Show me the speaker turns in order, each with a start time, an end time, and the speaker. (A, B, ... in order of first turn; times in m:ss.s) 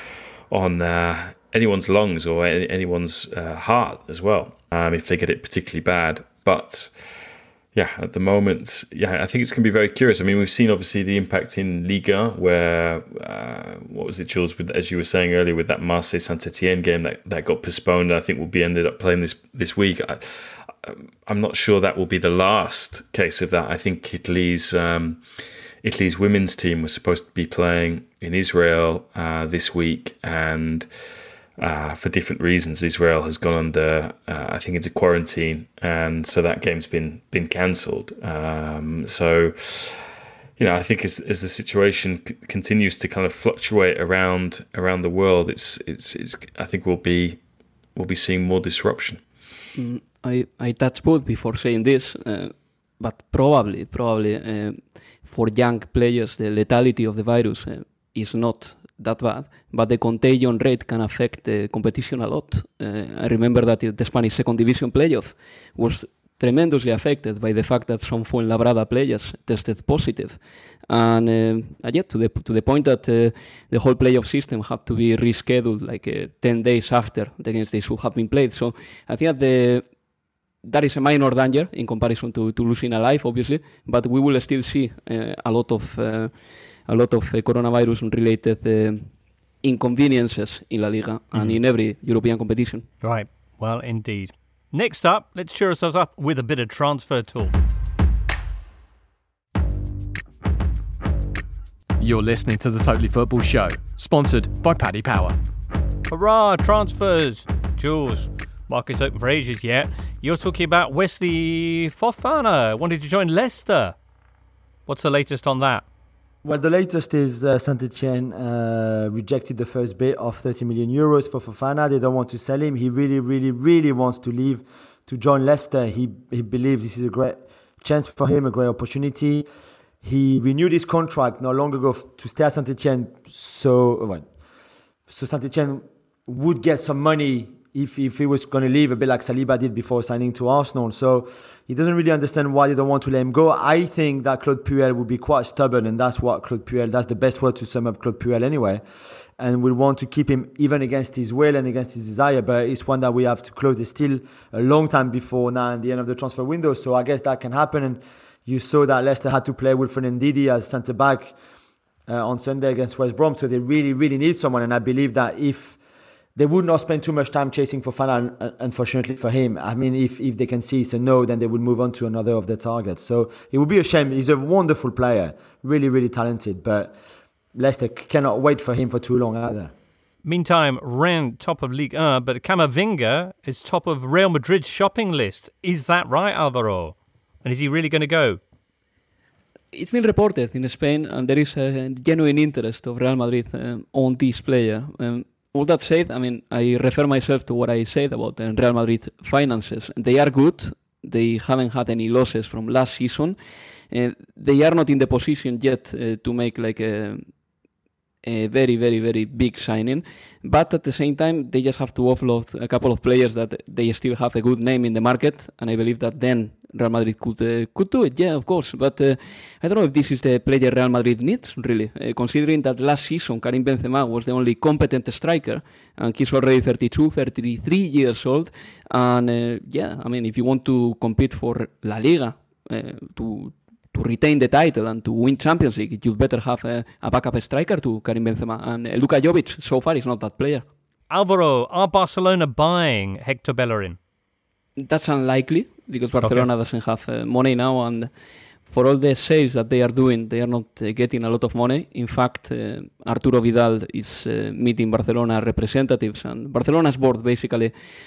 0:00.5-0:06.9 A
0:07.7-0:25.2 A
0:25.8-0:30.9 A
0:31.6-0:40.0 A
0:40.6-0:47.4 A
0:48.0-0:49.2 A
0:49.8-1:19.8 B
1:20.6-1:26.3 B
1:26.9-1:29.1 B
1:29.6-1:32.9 B
1:33.0-1:37.5 C
1:42.0-1:45.3 D
1:46.1-1:54.0 C
1:54.9-1:55.8 C
1:56.4-2:09.4 E
2:10.0-2:14.2 E
2:15.1-2:28.8 E
2:29.4-2:41.3 E
2:42.1-2:45.8 E
2:46.4-2:56.9 E
2:57.5-2:59.7 E
3:00.2-3:08.4 C
3:09.7-3:23.4 B
3:23.9-3:27.3 B
3:28.2-4:00.6 B
4:01.1-4:04.0 C
4:04.8-4:08.1 B
4:06.2-4:06.5 C
4:08.7-4:17.7 B